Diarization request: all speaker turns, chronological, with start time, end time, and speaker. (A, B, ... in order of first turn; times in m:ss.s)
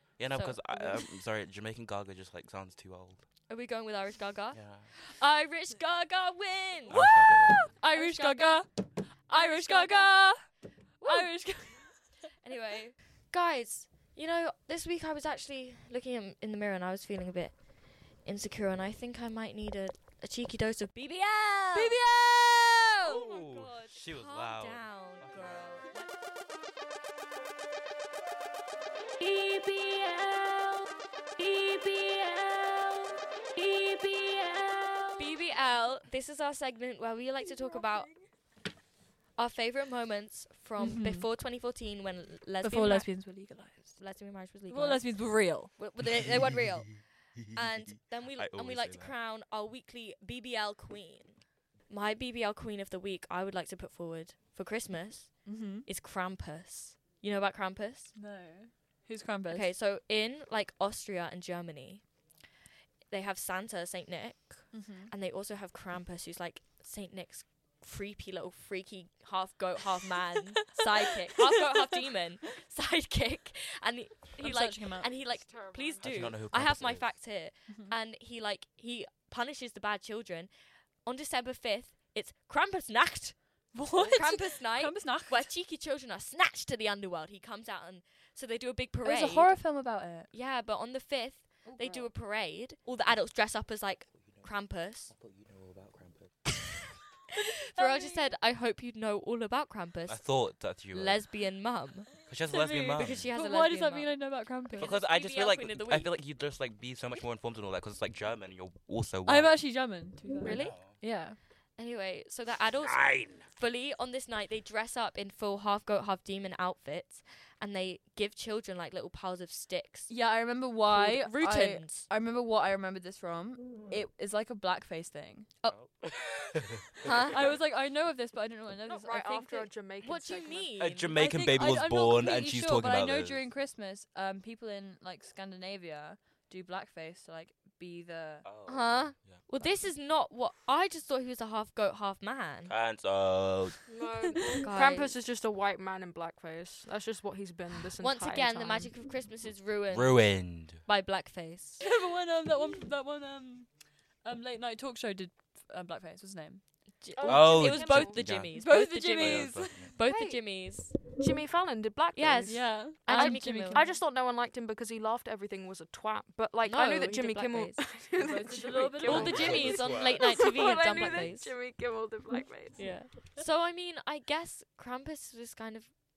0:00.2-0:03.2 A
0:00.3-0:01.0 B
0:03.5-0:07.0 B
0:04.5-0:04.9 A
0:06.9-0:07.7 A
0:06.9-0:10.4 C
0:07.9-0:08.7 B
0:09.3-0:10.2 B
0:11.0-0:12.0 C
0:11.0-0:11.7 B
0:12.4-0:17.6 B
0:18.1-0:22.0 B
0:21.7-0:22.9 C
0:23.0-0:25.7 A
0:23.0-0:26.1 B
0:29.2-0:30.8 C
0:31.4-0:35.2 C
0:35.2-0:38.1 B
0:37.5-0:38.2 C
0:39.4-0:43.3 B
0:40.8-0:41.2 C
0:42.6-0:44.0 C
0:44.0-0:58.1 B
0:44.7-0:45.7 C
0:47.9-0:49.1 A
0:55.4-0:55.9 C
0:58.2-0:59.7 C
0:59.5-1:02.0 B
1:03.1-1:20.5 B
1:04.7-1:05.1 C
1:14.4-1:15.1 C
1:15.4-1:16.3 D
1:16.0-1:17.1 A
1:17.7-1:17.9 C
1:21.0-1:35.1 B
1:23.7-1:25.5 C
1:29.0-1:30.3 C
1:31.6-1:32.1 C
1:35.1-1:36.3 A
1:37.7-1:42.1 B
1:37.8-1:38.3 C
1:40.1-1:41.2 A
1:42.3-1:43.3 A
1:42.5-1:44.9 C
1:43.0-1:46.1 B
1:44.8-1:49.8 A
1:49.2-1:51.4 C
1:50.4-1:51.1 B
1:50.5-1:50.9 A
1:51.8-2:00.1 B
1:52.8-1:53.4 A
2:00.1-2:05.5 C
2:00.9-2:02.1 B
2:05.7-2:07.5 A
2:07.0-2:07.4 B
2:07.2-2:09.7 C
2:08.9-2:10.7 D
2:10.0-2:11.3 B
2:10.8-2:13.4 A
2:11.1-2:18.5 C
2:18.4-2:19.7 A
2:18.7-2:22.7 B
2:22.7-2:23.8 A
2:23.9-2:28.9 D
2:24.6-2:25.2 B
2:28.0-2:31.8 B
2:29.9-2:30.8 A
2:31.8-2:36.6 C
2:37.0-2:41.2 B
2:37.2-2:38.2 D
2:37.2-2:39.9 A
2:38.4-2:40.3 C
2:40.1-2:40.4 D
2:41.2-2:52.9 D
2:42.1-2:43.9 B
2:42.5-2:44.0 C
2:46.6-2:48.0 B
2:48.2-2:49.7 C
2:49.0-2:51.5 B
2:49.0-2:50.4 A
2:50.9-2:51.3 C
2:52.8-2:56.0 B